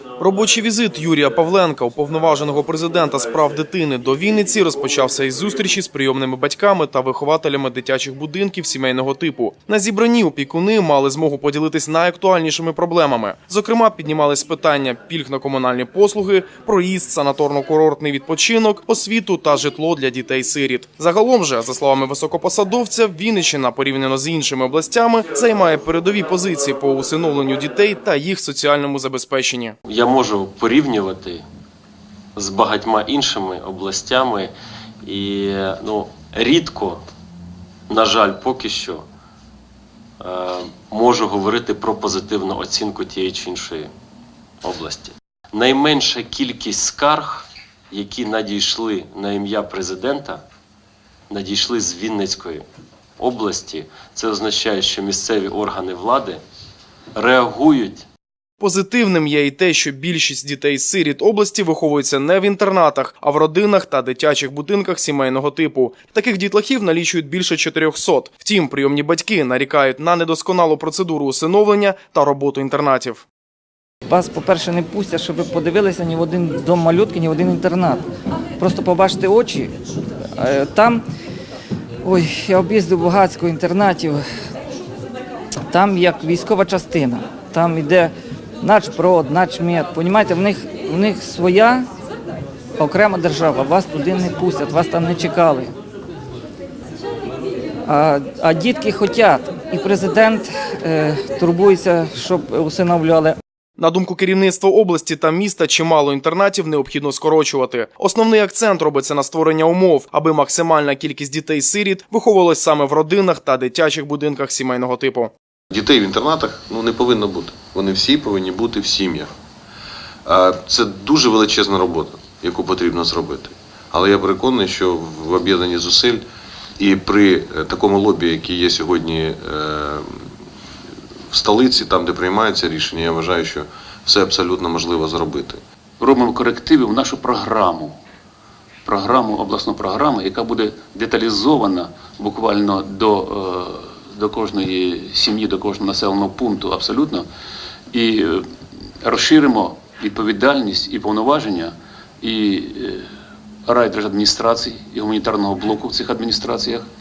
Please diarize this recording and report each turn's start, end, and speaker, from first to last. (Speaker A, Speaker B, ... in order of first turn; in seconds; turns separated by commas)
Speaker A: 0.2-29.8, Speaker B: 29.9-31.4, Speaker B: 32.4-34.5, Speaker B: 35.0-37.0, Speaker B: 37.9-39.1, Speaker B: 40.2-43.9, Speaker B: 44.6-50.4, Speaker B: 51.3-52.6, Speaker B: 53.2-56.4, Speaker B: 57.1-58.0, Speaker A: 58.6-73.2, Speaker C: 74.1-78.0, Speaker C: 78.6-79.7, Speaker C: 80.4-81.0, Speaker C: 82.0-84.2, Speaker C: 85.7-91.9, Speaker C: 92.8-95.7, Speaker C: 97.9-103.4, Speaker A: 103.8-115.3, Speaker D: 115.7-119.3, Speaker D: 120.2-126.2, Speaker D: 126.8-130.3, Speaker D: 131.3-135.6, Speaker E: 136.0-138.0, Speaker E: 138.8-147.3, Speaker E: 147.9-148.5, Speaker E: 149.0-153.1, Speaker E: 153.7-156.9